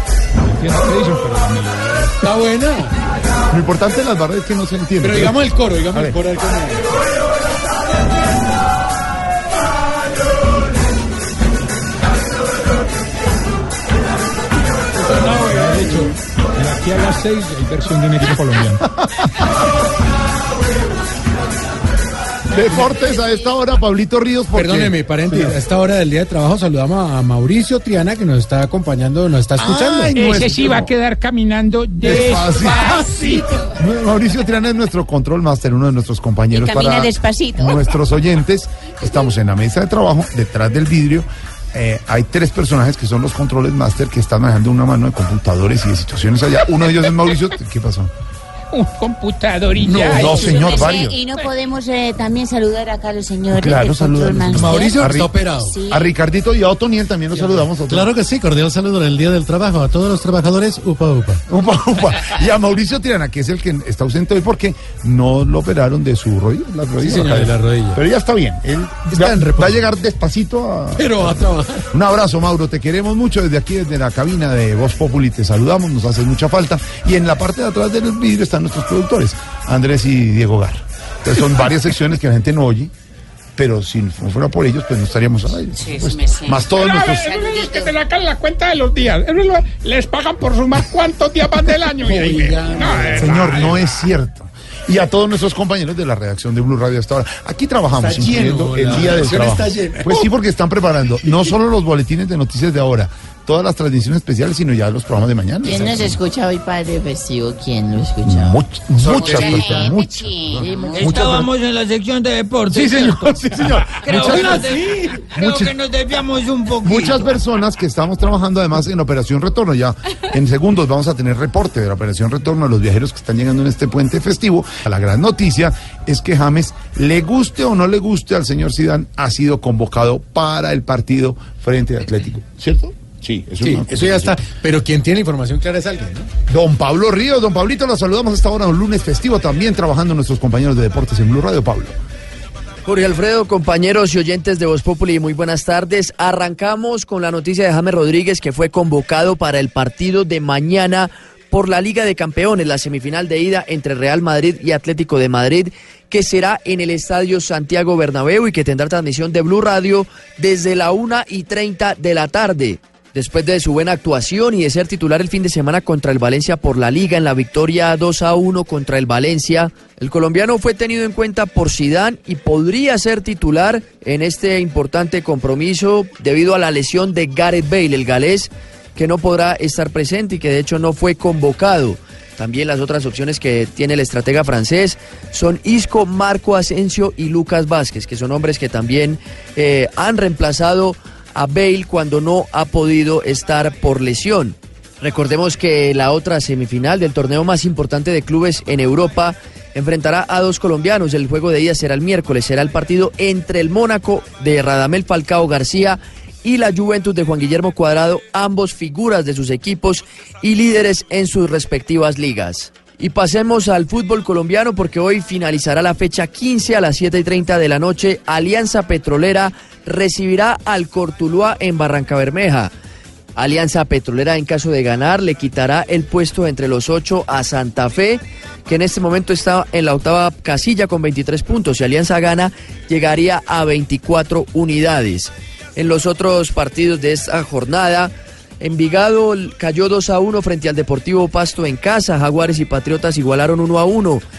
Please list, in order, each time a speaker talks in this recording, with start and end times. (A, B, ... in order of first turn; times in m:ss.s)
0:00.4-0:02.2 A
0:02.2-0:02.9 B
0:03.5-0:06.1 C
0:05.0-0:06.9 B
0:15.0-0:18.8 A
0:18.9-0:19.5 C
0:22.5-0:25.6 C
0:24.5-0:30.2 B
0:29.6-0:30.9 C
0:30.1-0:33.3 D
0:32.0-0:48.1 C
0:36.5-0:38.0 E
0:48.7-0:51.5 D
0:49.8-0:50.2 B
0:49.9-0:51.2 C
0:50.2-0:55.0 E
0:53.5-0:58.1 C
0:54.5-0:55.8 B
0:55.6-0:56.1 E
0:57.3-1:01.4 B
1:01.5-1:22.9 C
1:07.0-1:08.0 B
1:09.0-1:09.9 B
1:11.0-1:11.9 B
1:23.6-1:27.3 C
1:25.8-1:26.6 E
1:26.7-1:33.8 D
1:27.2-1:27.9 E
1:32.0-1:33.7 B
1:33.2-1:46.2 C
1:38.0-1:40.2 B
1:45.6-1:48.6 F
1:48.2-1:51.5 C
1:49.0-1:51.1 E
1:50.6-1:50.8 F
1:51.0-1:53.3 G
1:52.7-1:54.8 C
1:54.0-1:57.2 G
1:55.3-1:55.8 C
1:56.8-2:14.4 C
2:13.6-2:16.3 B
2:16.5-2:21.9 C
2:22.8-3:42.7 H
3:43.4-4:04.2 H